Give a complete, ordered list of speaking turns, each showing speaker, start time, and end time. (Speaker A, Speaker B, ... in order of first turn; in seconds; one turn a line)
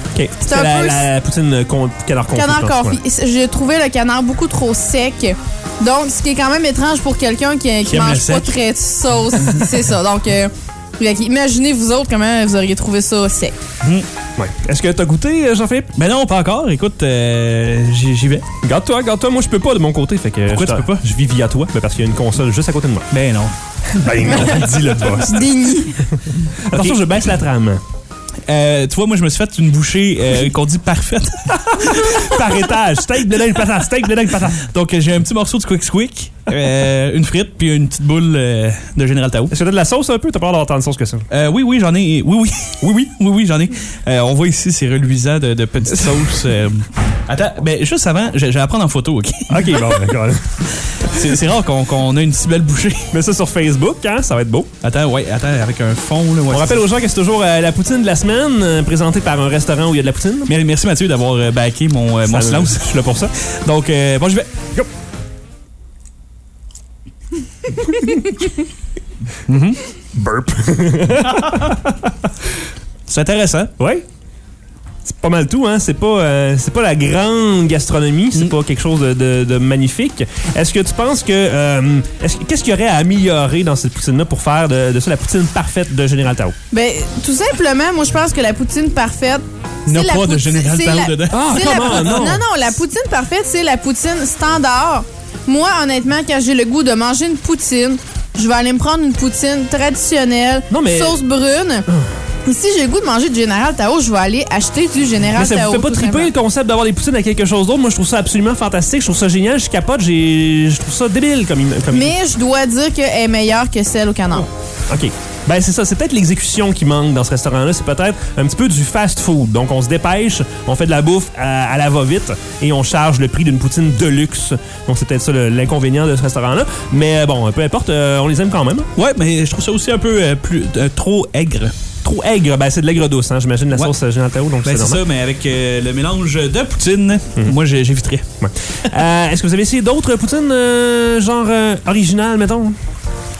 Speaker A: 0.1-3.0
Speaker B: 0.4-1.1
Speaker B: 2.3-13.5
Speaker C: 7.8-8.6
Speaker A: 14.3-15.9
Speaker C: 15.9-18.4
Speaker A: 18.6-23.1
Speaker C: 20.5-21.0
Speaker C: 23.1-25.4
Speaker A: 24.0-25.5
Speaker B: 25.3-26.0
Speaker A: 26.3-27.8
Speaker C: 26.7-27.0
Speaker C: 28.4-32.4
Speaker A: 31.6-34.7
Speaker C: 34.7-39.5
Speaker A: 39.5-41.2
Speaker C: 41.3-50.1
Speaker A: 49.5-51.2
Speaker C: 50.6-53.1
Speaker A: 53.1-54.7
Speaker C: 54.8-56.8
Speaker A: 56.5-60.5
Speaker C: 60.5-63.0
Speaker A: 62.2-63.3
Speaker C: 63.6-64.5
Speaker A: 67.8-68.1
Speaker A: 69.5-71.9
Speaker C: 73.1-73.7
Speaker A: 73.8-74.0
Speaker A: 75.0-86.5
Speaker B: 86.7-101.8
Speaker C: 89.9-92.3
Speaker A: 91.3-92.4
Speaker A: 100.7-101.2
Speaker B: 102.4-106.3
Speaker A: 105.3-112.1
Speaker B: 111.9-114.5
Speaker A: 114.9-128.9
Speaker C: 128.9-131.7
Speaker A: 132.0-135.0
Speaker C: 134.6-138.2
Speaker A: 138.4-142.7